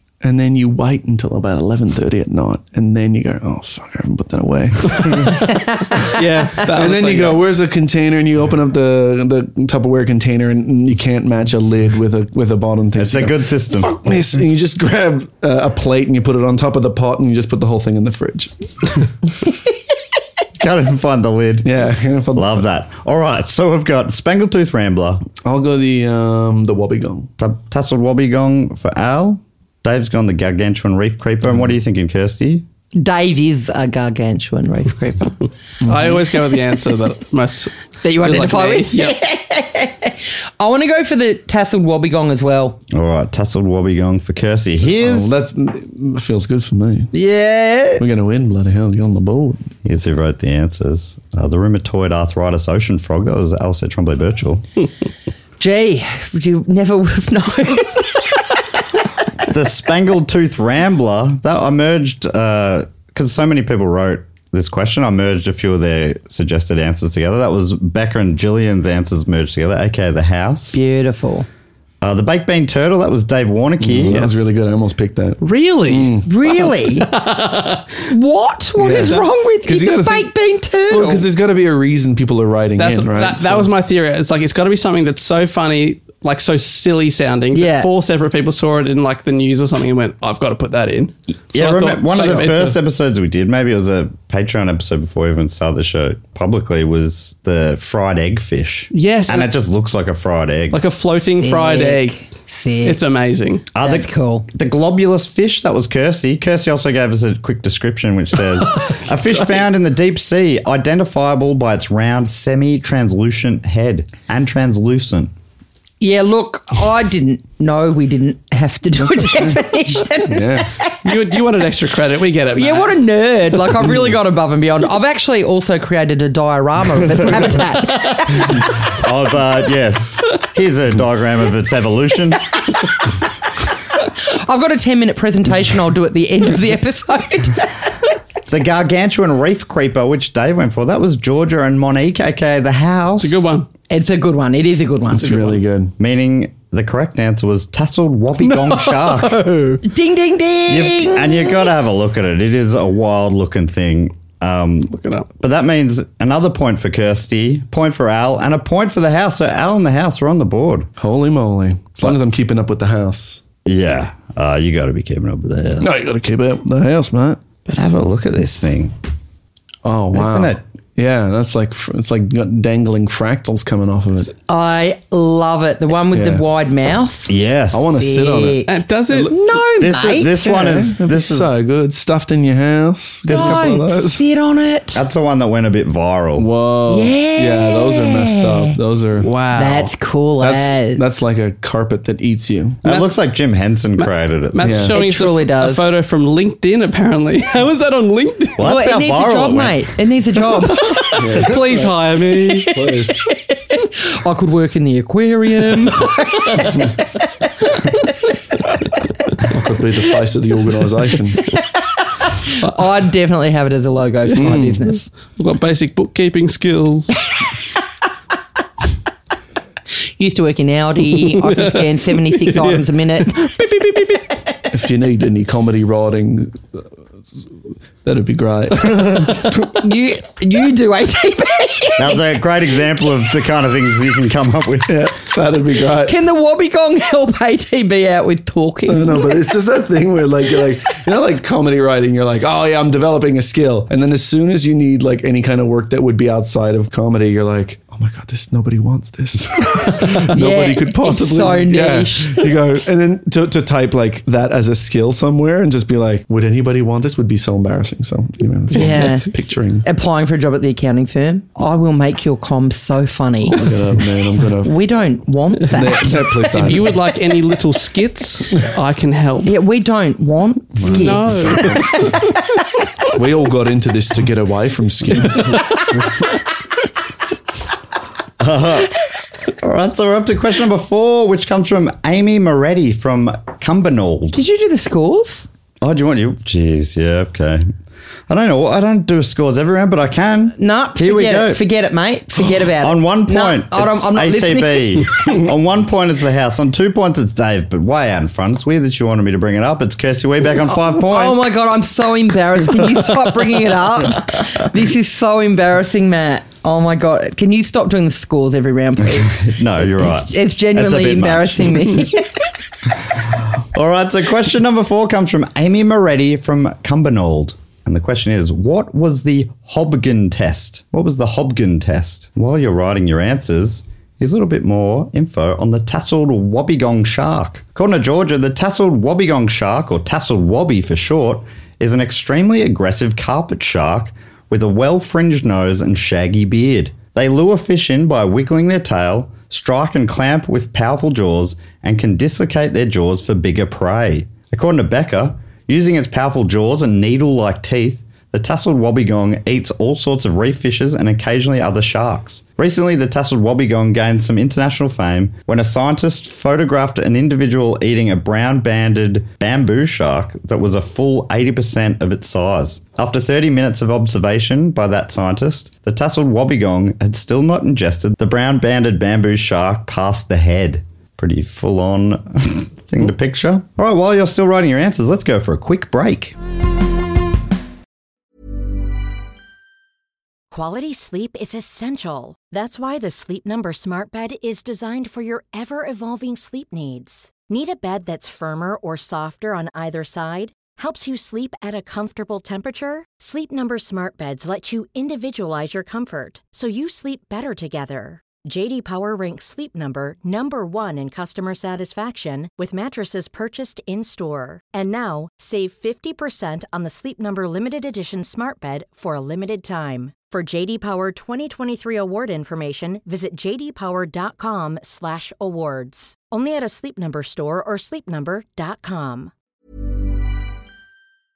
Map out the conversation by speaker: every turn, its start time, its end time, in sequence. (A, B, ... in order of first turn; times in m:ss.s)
0:00.2-0:19.0 A
0:05.0-0:07.4 B
0:13.0-0:14.0 C
0:20.6-0:21.7 C
0:21.6-0:22.6 A
0:22.3-0:25.2 C
0:25.4-0:27.3 A
0:27.4-0:32.6 C
0:33.0-0:35.4 D
0:35.8-0:36.2 A
0:35.8-0:39.2 B
0:38.0-0:42.8 D
0:42.9-0:45.4 C
0:44.9-0:47.1 A
0:47.1-0:48.0 D
0:48.0-0:49.6 A
0:49.8-0:54.6 C
0:55.6-0:58.4 D
0:59.5-1:10.8 C
1:10.7-1:11.5 D
1:12.0-1:14.2 C
1:13.8-1:16.3 A
1:14.1-1:14.4 B
1:15.4-1:17.9 B
1:16.2-1:17.1 D
1:18.1-1:21.3 D
1:18.8-1:20.3 A
1:18.9-1:19.3 B
1:20.9-1:23.7 A
1:22.8-1:32.8 B
1:27.5-1:27.9 D
1:31.5-1:40.8 C
1:38.9-1:39.5 B
1:40.7-1:42.2 B
1:41.4-1:43.0 D
1:42.8-1:43.6 B
1:43.7-1:55.3 C
1:43.8-1:44.5 D
1:56.0-2:01.1 D
2:00.2-2:00.7 A
2:01.0-2:03.0 B
2:02.5-2:08.7 D
2:08.8-2:12.5 C
2:14.2-2:17.8 D
2:18.5-2:23.5 C
2:23.2-2:23.7 B
2:23.9-2:25.4 D
2:25.2-2:25.9 A
2:25.2-2:25.6 B
2:26.0-2:29.5 C
2:29.3-2:29.8 A
2:29.8-2:31.7 D
2:30.7-2:40.9 C
2:34.9-2:35.3 B
2:41.0-2:43.4 A
2:43.6-2:45.9 C
2:45.8-2:47.4 A
2:47.6-2:48.9 C
2:49.8-2:54.3 A
2:50.1-2:50.6 C
2:54.5-2:57.3 D
2:56.1-2:56.4 A
2:57.3-2:58.0 C
2:57.7-2:59.4 A
2:58.0-3:00.3 D
2:58.7-2:59.3 B
2:59.8-3:01.5 C
3:00.3-3:04.2 A
3:03.3-3:03.7 C
3:03.3-3:05.0 D
3:04.9-3:06.5 C
3:06.4-3:09.3 A
3:06.9-3:08.8 D
3:09.2-3:09.9 B
3:09.5-3:11.1 D
3:10.4-3:12.8 A
3:12.8-3:14.8 C
3:12.8-3:13.1 B
3:14.0-3:18.6 B
3:14.6-3:15.0 A
3:14.9-3:15.9 D
3:18.6-3:19.9 C
3:18.6-3:21.5 D
3:20.8-3:22.8 B
3:21.1-3:21.9 A
3:22.6-3:23.2 A
3:23.2-3:27.3 D
3:29.4-3:31.4 A
3:32.2-3:35.1 D
3:34.4-3:34.8 A
3:35.4-3:37.1 B
3:40.2-3:43.5 D
3:41.2-3:44.2 B
3:44.7-3:47.5 A
3:48.0-3:49.8 A
3:49.6-3:52.2 D
3:52.0-3:55.1 C
3:54.9-3:56.1 A
3:56.0-3:59.4 D
3:58.9-4:19.8 A
4:10.3-4:12.5 D
4:18.7-4:19.3 D
4:19.8-4:23.6 D
4:23.5-4:24.7 A
4:24.6-4:26.4 D
4:25.7-4:27.0 A
4:26.5-4:29.5 B
4:29.4-4:32.2 D
4:30.8-4:32.3 A
4:30.9-4:32.1 B
4:33.1-4:36.2 A
4:35.1-4:35.8 B
4:38.4-4:38.9 C
4:39.5-4:44.4 C
4:44.3-4:45.5 D
4:45.8-4:47.7 C
4:48.3-4:51.6 C
4:50.6-4:55.0 D
4:52.8-5:01.4 C
5:00.7-5:12.5 D
5:09.0-5:11.8 C
5:13.6-6:16.3 C
6:20.5-6:59.3 E